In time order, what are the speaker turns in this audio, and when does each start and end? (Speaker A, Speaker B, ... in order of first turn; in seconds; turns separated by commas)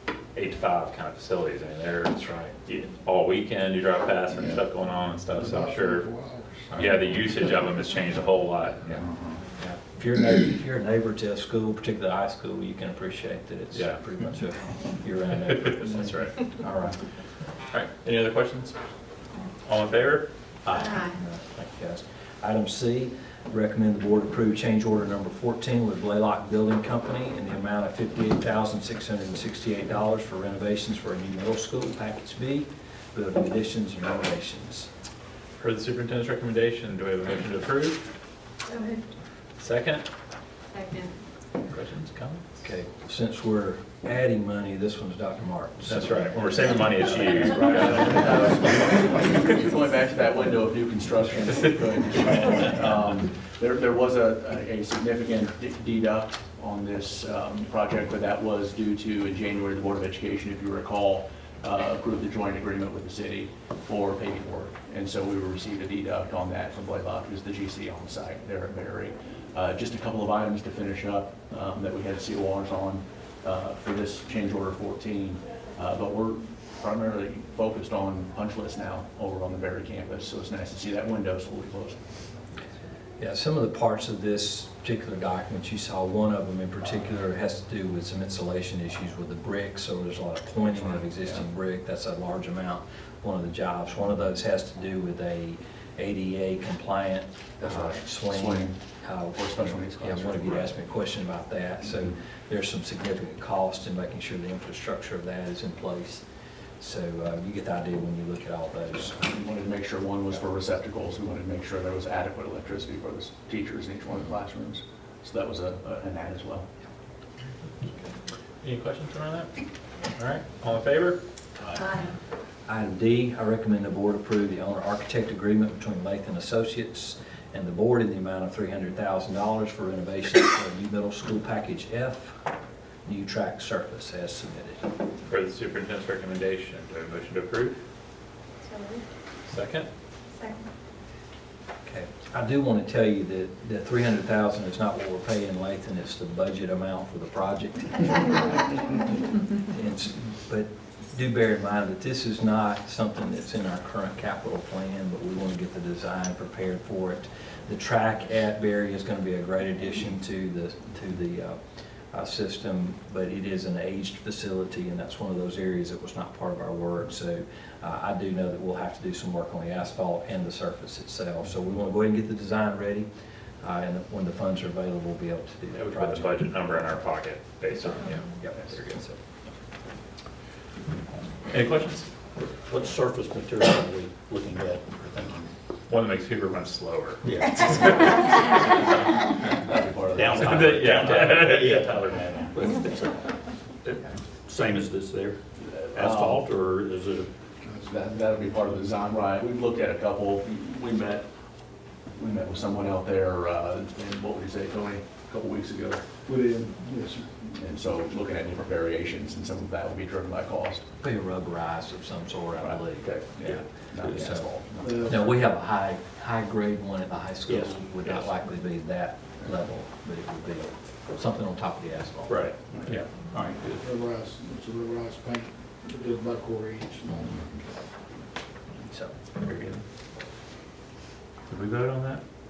Speaker A: 0.3-6.1, Speaker B: 5.3-6.8, Speaker A: 6.7-9.1, Speaker C: 9.6-17.0, Speaker A: 13.7-14.0, Speaker A: 15.7-16.4, Speaker A: 17.7-18.8, Speaker A: 19.6-21.0, Speaker C: 20.7-34.9, Speaker A: 35.6-38.1, Speaker D: 38.6-39.0, Speaker A: 39.6-40.0, Speaker D: 40.7-41.2, Speaker A: 41.7-42.4, Speaker C: 42.6-46.6, Speaker A: 45.8-48.3, Speaker E: 47.5-82.0, Speaker C: 83.2-106.2, Speaker E: 91.0-91.4, Speaker E: 97.6-98.8, Speaker E: 99.3-100.8, Speaker C: 106.8-109.2, Speaker E: 109.2-116.7, Speaker A: 118.6-119.5, Speaker A: 120.2-121.2, Speaker D: 121.8-122.1, Speaker C: 122.7-132.4, Speaker C: 133.1-134.9, Speaker A: 135.3-137.8, Speaker D: 138.6-139.0, Speaker A: 139.5-139.9, Speaker D: 140.3-140.7, Speaker C: 141.8-161.6, Speaker C: 162.1-173.1, Speaker C: 173.6-176.4, Speaker A: 175.7-179.0, Speaker C: 178.4-179.2, Speaker A: 181.5-182.1, Speaker F: 182.7-185.5, Speaker A: 185.9-188.2, Speaker F: 187.2-188.5, Speaker E: 188.5-191.1, Speaker F: 190.1-193.2, Speaker A: 190.3-191.9, Speaker F: 193.8-195.4, Speaker E: 195.7-196.4, Speaker F: 195.9-197.3, Speaker E: 197.8-201.2, Speaker E: 202.1-206.0, Speaker B: 206.3-207.4, Speaker E: 207.5-210.8, Speaker C: 211.0-214.5, Speaker E: 212.6-215.1, Speaker B: 214.8-215.3, Speaker C: 215.0-222.4, Speaker F: 217.5-218.3, Speaker F: 222.3-223.9, Speaker B: 223.8-227.5, Speaker C: 228.8-229.1, Speaker A: 229.4-229.8, Speaker A: 231.5-232.2